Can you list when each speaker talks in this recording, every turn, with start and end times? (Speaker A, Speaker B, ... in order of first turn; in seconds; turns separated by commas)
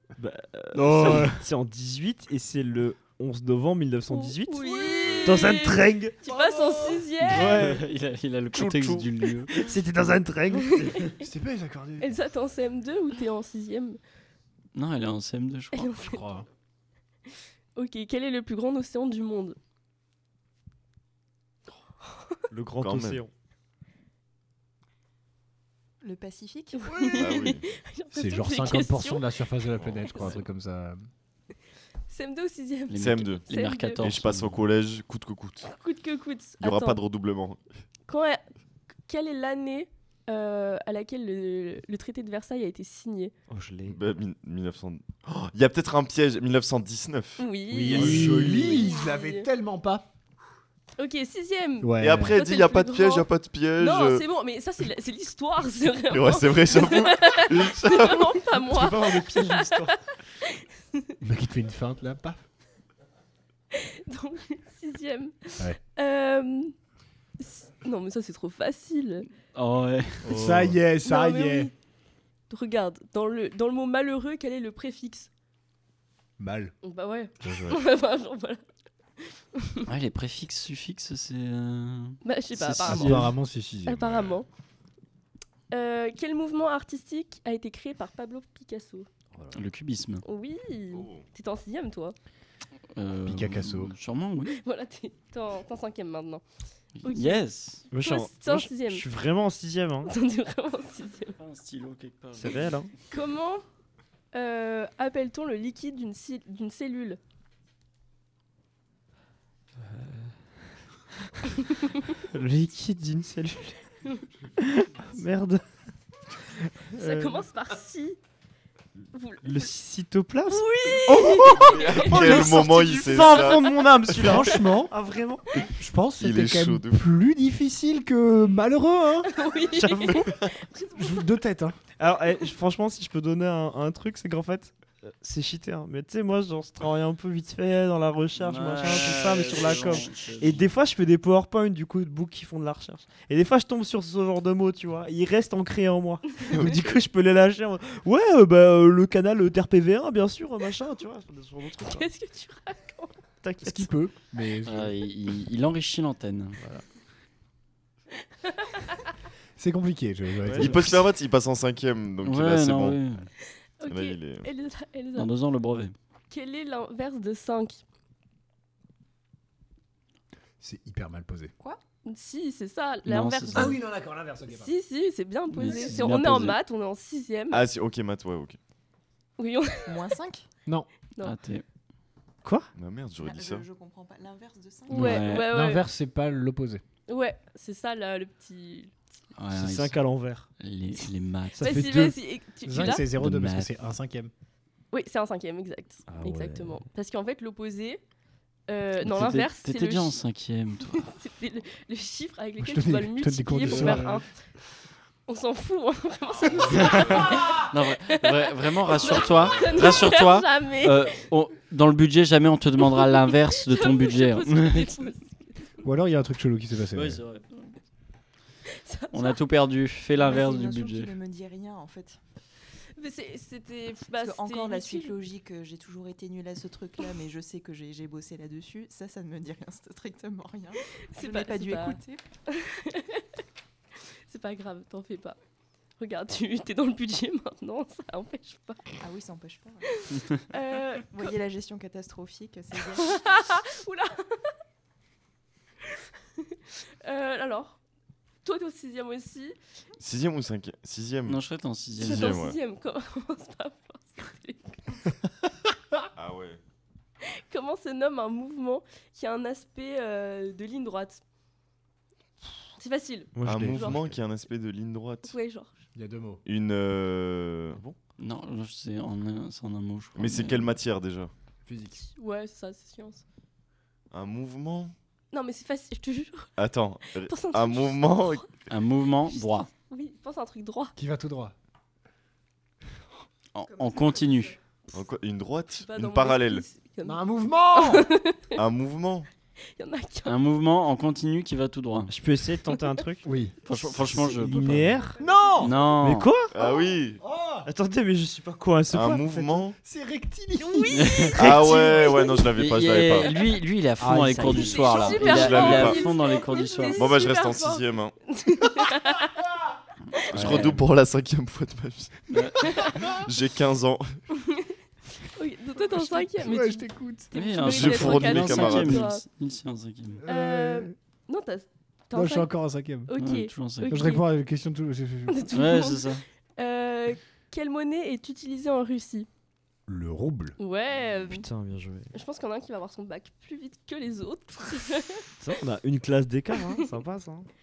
Speaker A: 0.2-6.2, Speaker B: 0.7-1.4, Speaker C: 4.1-7.7, Speaker D: 5.0-5.4, Speaker E: 7.2-9.7, Speaker A: 7.2-7.8, Speaker A: 8.6-8.9, Speaker A: 9.5-11.0, Speaker C: 10.5-11.2, Speaker B: 11.1-12.2, Speaker C: 12.0-14.0, Speaker E: 14.7-15.9, Speaker C: 15.7-16.2, Speaker B: 16.0-16.5, Speaker C: 17.8-19.6, Speaker C: 22.0-22.4, Speaker A: 22.5-23.3, Speaker D: 22.8-23.2, Speaker F: 26.0-26.9, Speaker C: 26.7-29.3, Speaker D: 27.1-27.6, Speaker B: 28.1-31.0, Speaker D: 29.8-30.4, Speaker C: 30.1-30.4, Speaker C: 32.1-34.1, Speaker E: 32.9-34.7, Speaker D: 33.0-33.5, Speaker D: 34.0-35.7, Speaker C: 35.6-37.0, Speaker D: 36.6-37.6, Speaker C: 38.1-38.4, Speaker C: 39.1-43.3, Speaker A: 43.5-44.0, Speaker D: 43.9-48.9, Speaker C: 47.4-49.5, Speaker B: 47.7-50.1, Speaker C: 51.0-61.1, Speaker B: 51.8-52.4, Speaker D: 52.0-54.2, Speaker D: 56.1-58.4, Speaker A: 58.6-60.0, Speaker B: 61.2-62.4, Speaker C: 63.7-66.7, Speaker C: 67.4-69.3, Speaker E: 69.5-70.5, Speaker B: 70.2-71.7, Speaker C: 71.0-71.7, Speaker C: 72.5-75.3, Speaker B: 76.4-76.8, Speaker C: 76.8-78.6, Speaker B: 77.4-77.8, Speaker C: 79.2-79.9, Speaker E: 79.9-83.3, Speaker C: 82.2-83.3, Speaker B: 82.6-84.3, Speaker C: 83.8-84.5, Speaker C: 85.7-89.1, Speaker E: 89.5-90.2, Speaker C: 90.2-92.2, Speaker D: 90.9-91.2, Speaker E: 93.0-94.6, Speaker B: 93.2-93.9, Speaker C: 94.6-96.4, Speaker E: 97.0-97.8, Speaker C: 97.0-99.1, Speaker A: 97.9-100.1, Speaker C: 100.1-101.4, Speaker E: 101.4-102.8, Speaker A: 102.4-102.9, Speaker C: 103.1-103.7, Speaker C: 104.3-107.2, Speaker A: 109.8-110.4, Speaker A: 111.5-113.8, Speaker A: 114.6-115.6, Speaker A: 116.7-117.5, Speaker C: 117.0-118.2, Speaker C: 119.1-119.7, Speaker A: 119.4-125.4, Speaker C: 120.5-122.7, Speaker D: 121.5-124.4, Speaker B: 123.4-124.9, Speaker B: 125.7-129.3, Speaker D: 126.2-127.0, Speaker C: 129.3-131.3, Speaker A: 129.7-130.3, Speaker B: 131.0-131.8, Speaker A: 132.0-152.1, Speaker E: 138.4-140.7, Speaker D: 146.4-147.0, Speaker C: 151.8-153.2, Speaker A: 153.4-153.9, Speaker B: 153.6-154.9, Speaker E: 154.7-156.6, Speaker C: 158.4-158.9, Speaker B: 159.6-161.0, Speaker A: 160.4-160.8, Speaker D: 160.5-163.0, Speaker E: 162.2-163.3, Speaker C: 163.8-165.3, Speaker D: 163.9-164.5, Speaker E: 165.2-165.9, Speaker C: 166.3-167.8, Speaker B: 170.6-171.5, Speaker C: 172.0-173.8, Speaker E: 173.1-173.8, Speaker B: 173.5-174.7, Speaker C: 174.5-177.7, Speaker E: 175.5-176.6, Speaker D: 177.5-178.6, Speaker C: 179.4-180.0, Speaker F: 179.8-180.5, Speaker E: 181.2-181.6, Speaker A: 182.4-182.7, Speaker D: 182.8-183.7, Speaker F: 183.2-185.2, Speaker C: 184.9-185.8, Speaker B: 184.9-186.8, Speaker E: 184.9-185.5, Speaker C: 187.1-188.9, Speaker E: 189.3-190.0, Speaker A: 189.5-190.5, Speaker E: 190.6-191.8, Speaker A: 191.6-192.0, Speaker C: 191.6-193.1, Speaker B: 191.7-194.3, Speaker E: 192.8-193.7, Speaker C: 194.9-198.0, Speaker A: 196.1-196.8, Speaker C: 198.7-200.2, Speaker E: 199.0-201.1, Speaker C: 200.9-204.3, Speaker B: 202.6-204.2, Speaker E: 203.7-204.0, Speaker C: 205.3-211.2, Speaker D: 206.5-207.2, Speaker E: 206.7-215.1, Speaker D: 209.0-209.9, Speaker C: 212.8-215.8, Speaker B: 215.8-217.2, Speaker E: 216.9-217.8, Speaker C: 218.7-219.4, Speaker E: 219.1-221.1, Speaker F: 220.2-222.2, Speaker C: 223.0-225.2, Speaker F: 224.1-232.2, Speaker C: 231.0-233.2, Speaker C: 234.3-235.4, Speaker C: 236.0-238.9, Speaker F: 239.0-240.0, Speaker C: 239.9-241.3, Speaker F: 241.0-243.2, Speaker C: 242.9-244.5, Speaker C: 246.4-247.8, Speaker C: 248.4-249.6, Speaker D: 250.0-251.4, Speaker E: 251.3-252.4, Speaker D: 252.0-252.6, Speaker C: 252.0-254.8, Speaker D: 256.2-256.6, Speaker C: 257.4-261.2, Speaker C: 262.8-264.0, Speaker A: 263.4-264.2, Speaker D: 263.4-265.3, Speaker C: 265.2-265.8, Speaker B: 265.9-266.4, Speaker D: 266.5-267.8, Speaker E: 268.2-270.7, Speaker D: 270.2-271.3, Speaker B: 271.7-272.0, Speaker C: 272.0-273.2, Speaker D: 274.1-274.9, Speaker C: 275.3-276.5, Speaker D: 276.6-278.4, Speaker C: 277.1-278.5, Speaker E: 278.7-279.7, Speaker C: 279.3-280.9, Speaker B: 281.0-281.5, Speaker E: 283.5-284.6, Speaker F: 283.6-284.6, Speaker D: 284.9-286.6, Speaker C: 285.8-287.2, Speaker B: 287.0-288.1, Speaker C: 287.7-288.5, Speaker D: 288.6-289.3, Speaker C: 289.8-290.4, Speaker E: 290.2-292.1, Speaker A: 292.1-293.3, Speaker B: 293.2-293.6, Speaker E: 293.7-295.0, Speaker A: 294.1-295.2, Speaker B: 295.2-295.8, Speaker E: 295.6-296.3, Speaker A: 296.0-296.5, Speaker D: 296.5-297.2, Speaker B: 297.2-297.7, Speaker A: 297.7-299.6, Speaker D: 298.9-299.8, Speaker B: 299.8-301.3, Speaker C: 300.6-302.5, Speaker E: 300.9-301.7, Speaker D: 301.4-303.3, Speaker E: 302.5-307.2, Speaker C: 303.2-303.5, Speaker B: 304.0-305.1, Speaker C: 304.4-309.4, Speaker D: 305.1-306.0, Speaker D: 306.9-308.1, Speaker E: 310.1-310.9, Speaker D: 310.3-314.2, Speaker E: 312.3-312.7, Speaker C: 312.6-313.0, Speaker C: 314.4-319.2, Speaker B: 315.9-317.3, Speaker E: 317.3-320.2, Speaker D: 317.6-319.1, Speaker B: 320.2-320.9, Speaker C: 320.2-322.5, Speaker B: 322.1-323.1, Speaker C: 323.0-324.2, Speaker E: 323.2-324.1, Speaker B: 323.9-325.5, Speaker C: 325.3-329.3, Speaker E: 325.5-326.2, Speaker B: 329.9-330.6, Speaker C: 330.6-331.5, Speaker A: 331.3-332.1, Speaker C: 332.1-335.2, Speaker A: 335.4-337.5